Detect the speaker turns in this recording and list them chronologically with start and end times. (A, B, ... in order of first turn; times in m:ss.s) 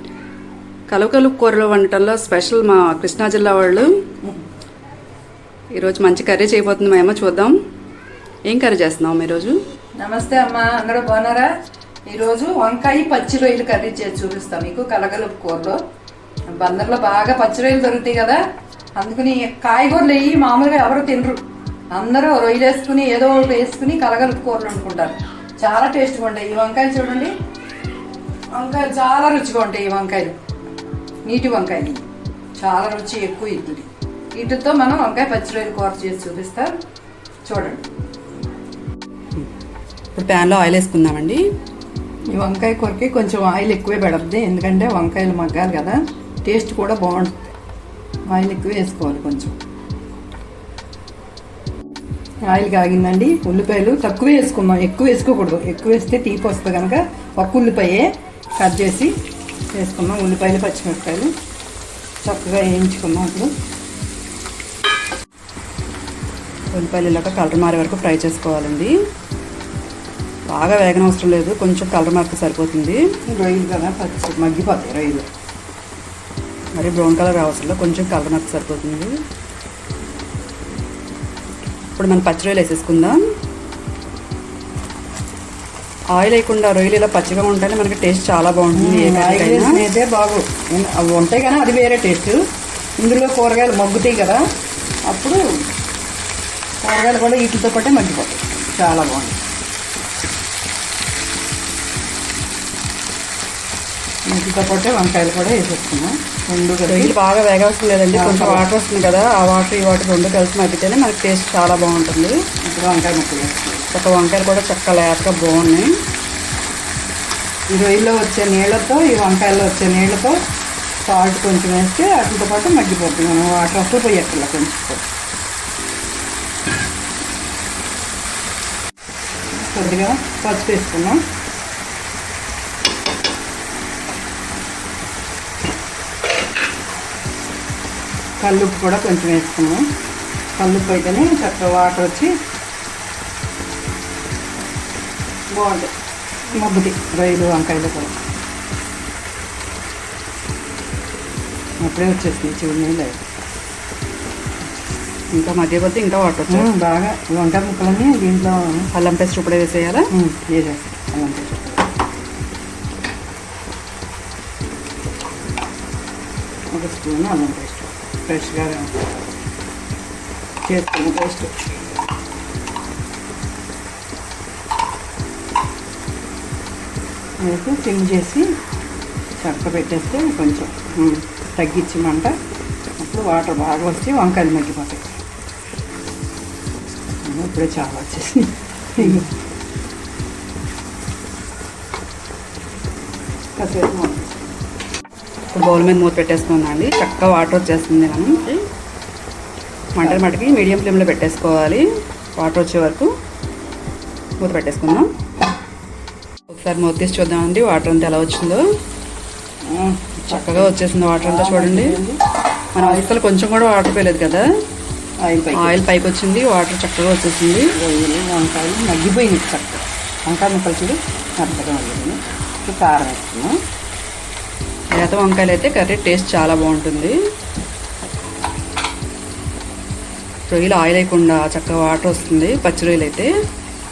0:00.9-0:03.9 A
0:05.7-0:07.6 A
0:08.5-0:09.6 A
0:10.0-0:11.5 B
0:12.1-0:15.8 B
0:16.5-0:18.4 B
0:19.0-0:27.3 B
0:28.5-0:30.4 B
0:31.2-0:32.1 B
0:32.6-0:36.7 B
0:37.4-0:37.9 B
0:40.2-0:41.4 A
0:42.3-0:47.5 B
0:48.3-0:49.6 B
0:52.4-0:59.1 B
0:59.7-1:01.3 B
1:02.2-1:03.5 B
1:06.7-1:08.9 A
1:10.5-1:13.0 A
1:13.3-1:15.3 B
1:16.8-1:19.2 A
1:22.0-1:23.2 A
1:26.1-1:29.9 A
1:28.8-1:32.4 B
1:33.0-1:34.4 B
1:35.1-1:35.4 B
1:36.8-1:39.4 B
1:44.3-1:47.1 B
1:46.9-1:52.4 A
1:48.1-1:48.7 B
1:52.6-1:53.9 B
1:53.9-1:55.9 A
1:57.7-2:00.4 B
2:01.0-2:05.0 B
2:09.5-2:11.2 B
2:18.4-2:19.9 B
2:20.6-2:22.3 B
2:25.5-2:25.9 B
2:26.5-2:28.2 B
2:31.8-2:33.2 B
2:35.3-2:36.7 A
2:36.5-2:38.9 B
2:38.9-2:40.1 A
2:40.1-2:41.9 B
2:46.7-2:49.0 B
2:50.6-2:51.7 B
2:57.4-2:58.5 B
2:59.4-3:02.4 B
3:03.0-3:05.1 B
3:07.2-3:09.3 B
3:13.6-3:14.5 B
3:15.5-3:18.6 A
3:20.0-3:21.8 A
3:20.0-3:20.2 B
3:22.4-3:23.1 A
3:24.4-3:25.1 A
3:26.5-3:28.6 A
3:29.6-3:32.2 B
3:30.3-3:32.0 A
3:32.8-3:34.4 A
3:32.8-3:33.1 B
3:35.2-3:35.8 B
3:35.6-3:37.7 A
3:37.8-3:43.6 B
3:45.0-3:47.2 A
3:50.5-3:53.3 A